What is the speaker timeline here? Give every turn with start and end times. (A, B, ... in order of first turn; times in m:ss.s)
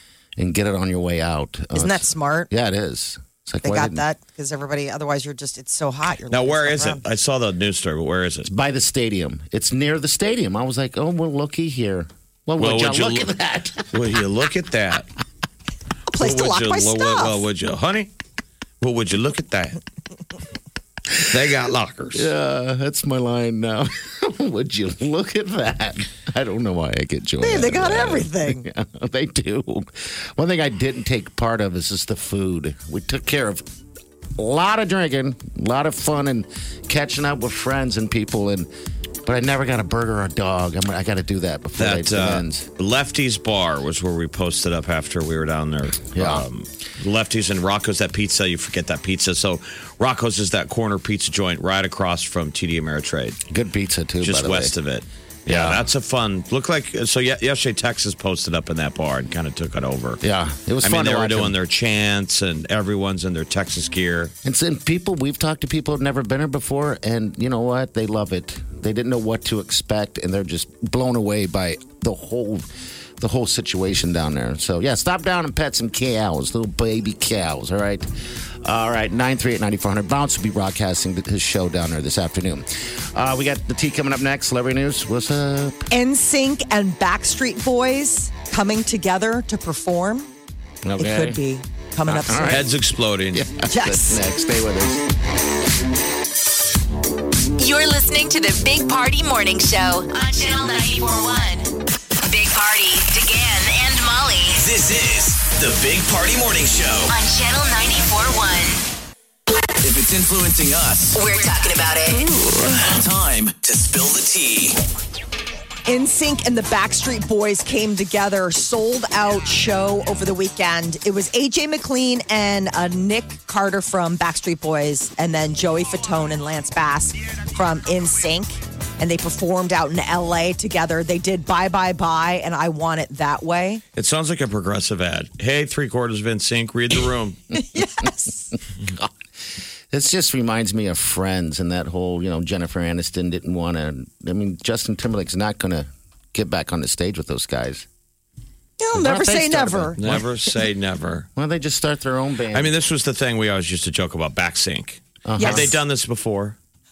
0:00.4-0:04.0 A
0:01.8-0:02.5 B
0:03.6-0:07.0 B
0:06.3-0:08.5 C
0:08.4-0:13.9 A
0:12.6-0:13.3 C
0:13.9-0:15.1 C
0:16.1-0:17.4 B
0:16.2-0:18.1 C
0:18.8-0:19.8 C
0:21.2-0:22.3 C
0:22.1-0:33.6 A
0:27.4-0:28.6 B
0:34.4-0:38.7 A
0:39.3-0:42.7 A
0:41.8-0:53.4 C
0:46.1-0:46.5 A
0:53.5-0:54.7 A
0:54.2-1:00.2 C
0:55.5-0:55.9 A
1:00.2-1:01.6 A
1:00.8-1:04.3 C
1:04.4-1:18.1 A
1:18.6-1:25.9 A
1:25.9-1:30.3 B
1:30.8-1:31.4 A
1:31.0-1:32.6 B
1:32.1-1:32.7 A
1:32.5-1:33.4 C
1:33.3-1:35.0 A
1:33.7-1:34.2 B
1:37.6-1:44.6 D
1:44.6-1:47.2 E
1:47.1-1:48.8 D
1:49.8-1:51.2 E
1:51.1-1:52.2 D
1:52.6-1:54.8 E
1:55.9-2:13.8 B
2:14.0-2:17.4 C
2:17.6-2:18.5 B
2:18.8-2:19.1 A
2:19.9-2:27.9 A
2:28.8-2:30.0 B
2:28.9-2:30.3 A
2:30.0-2:31.3 C
2:31.4-2:32.8 A
2:32.5-2:36.6 C
2:35.3-2:35.8 A
2:35.4-2:35.7 B